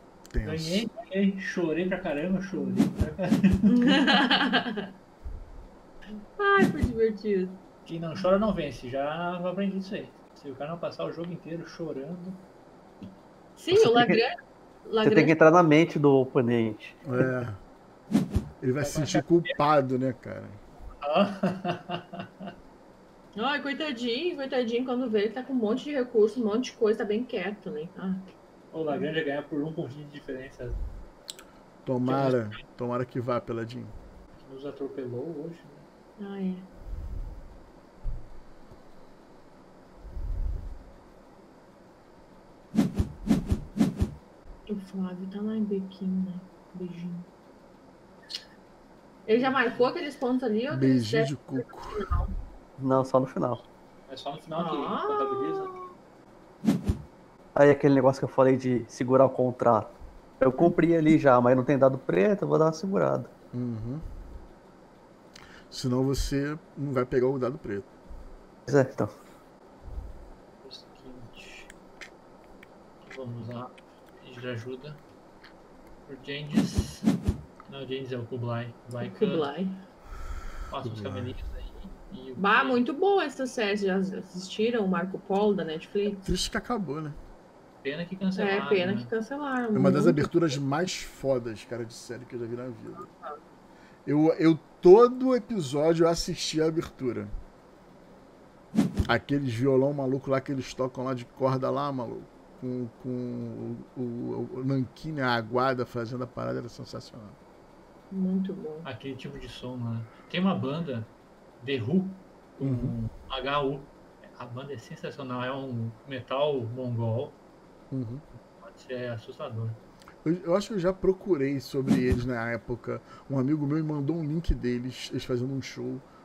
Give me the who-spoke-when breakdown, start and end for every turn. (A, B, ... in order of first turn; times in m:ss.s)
0:00.3-0:00.9 A
0:00.4-0:04.2 B
0:03.7-0:04.8 C
0:06.4-0:07.6 C
0:07.8-0:12.4 B
0:13.6-0:15.3 C
0:13.7-0:14.2 D
0:15.0-0:17.0 D
0:17.0-0:17.6 A
0:18.6-0:20.6 A
0:18.8-0:19.6 B
0:21.0-0:22.5 B
0:23.3-0:28.2 C
0:28.7-0:30.8 B
0:31.8-0:33.9 A
0:32.0-0:32.6 B
0:34.4-0:35.9 B
0:36.2-0:36.7 C
0:44.7-0:47.3 C
0:49.3-0:52.3 C
0:49.3-0:49.9 B
0:50.7-0:52.1 A
0:52.8-0:53.6 D
0:54.1-0:55.7 B
0:54.6-0:55.9 C
0:57.6-1:03.3 D
1:03.5-1:04.0 A
1:05.7-1:07.9 A
1:08.7-1:09.1 D
1:10.6-1:11.7 B
1:13.0-1:15.0 B
1:16.0-1:17.1 B
1:17.7-1:19.5 B
1:19.0-1:19.8 C
1:20.7-1:22.8 B
1:20.8-1:21.3 A
1:22.4-1:26.3 C
1:26.2-1:27.2 A
1:27.8-1:29.1 B
1:28.4-1:30.3 C
1:29.7-1:33.1 A
1:33.1-1:33.3 C
1:34.0-1:37.3 A
1:39.1-1:47.4 A
1:48.1-1:48.9 C
1:48.8-1:57.4 B
1:52.6-1:52.9 A
1:57.9-1:58.2 A
1:58.5-1:59.8 B
2:00.2-2:06.0 A